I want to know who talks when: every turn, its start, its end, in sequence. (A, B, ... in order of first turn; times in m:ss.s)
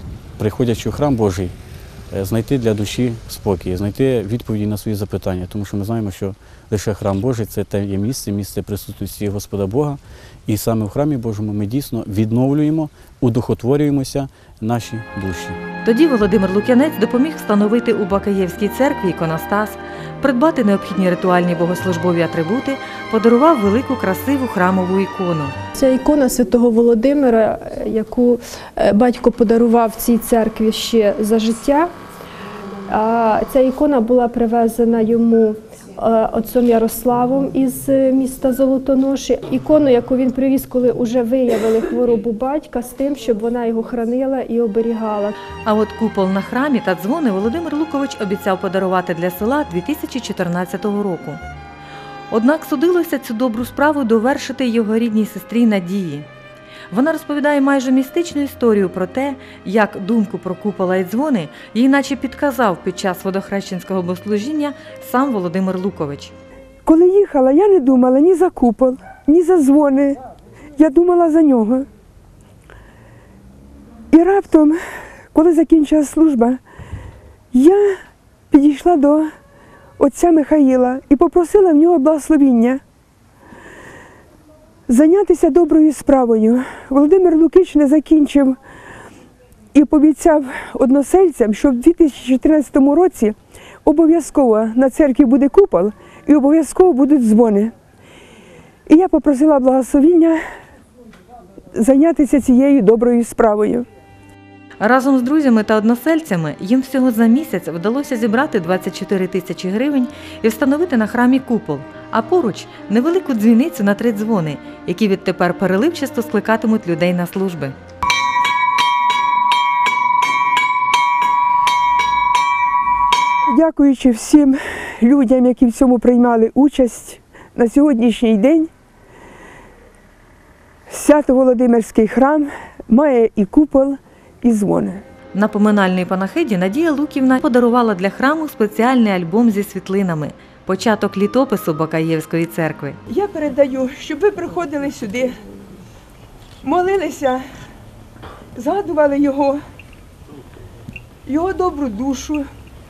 0:00.4-0:01.5 A
0:02.1-0:15.6 A
0:15.8-0:25.5 B
0:25.8-0:31.9 C
0:32.9-0:45.3 C
0:45.6-0:51.4 B
0:52.3-0:56.3 B
0:56.9-1:06.3 B
1:06.8-1:10.2 D
1:10.8-1:11.8 D
1:14.1-1:14.8 D
1:15.3-1:16.6 D
1:17.5-1:18.0 D
1:18.5-1:19.3 D
1:20.0-1:22.8 D
1:24.9-1:28.6 D
1:29.7-1:37.7 D
1:38.9-1:40.4 D
1:41.7-1:43.8 D
1:44.8-1:57.7 B
2:03.5-2:08.7 D
2:10.9-2:15.0 D
2:15.3-2:23.0 B
2:23.1-2:25.4 D
2:26.6-2:27.4 D
2:28.6-2:29.6 D
2:31.3-2:32.4 D